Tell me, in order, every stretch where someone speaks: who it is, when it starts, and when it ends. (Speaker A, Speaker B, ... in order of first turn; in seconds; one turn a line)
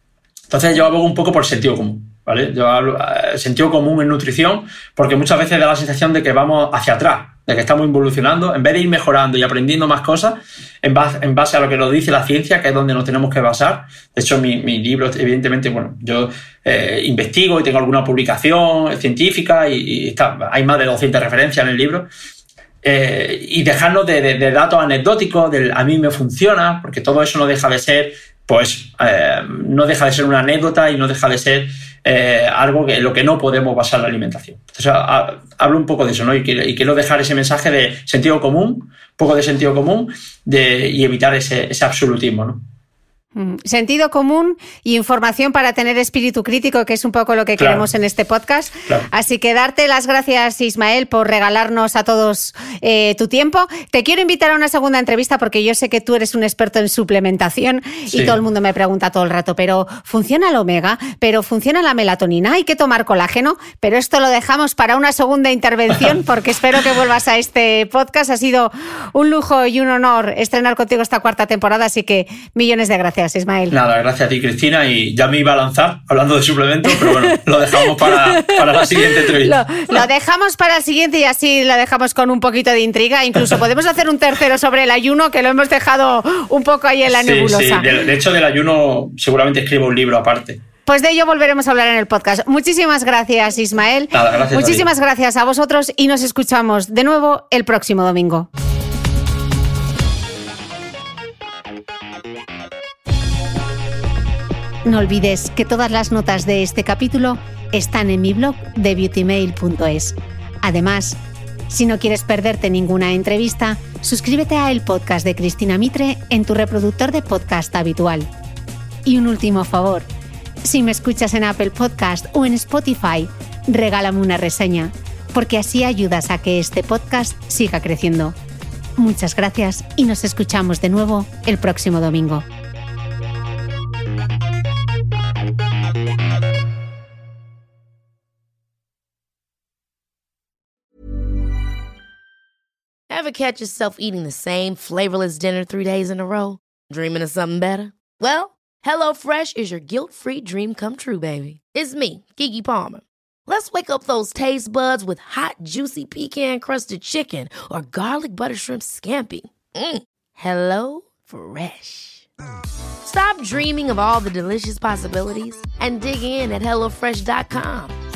Speaker A: 0.5-22.1
Speaker A: 22.8-42.6
Speaker B: 43.4-73.8
Speaker A: 47.6-47.9
Speaker A: 58.1-58.4
Speaker A: 73.7-80.1
Speaker B: 76.9-77.3
Speaker B: 78.0-78.6
Speaker B: 79.2-87.9
Speaker A: 87.1-90.6
Speaker B: 90.9-98.5
Speaker A: 94.1-94.9
Speaker B: 104.8-111.2
Speaker B: 111.7-118.3
Speaker B: 119.0-120.1
Speaker B: 120.6-128.3
Speaker B: 129.0-132.4
Speaker C: 143.1-162.3
Speaker C: 163.0-168.0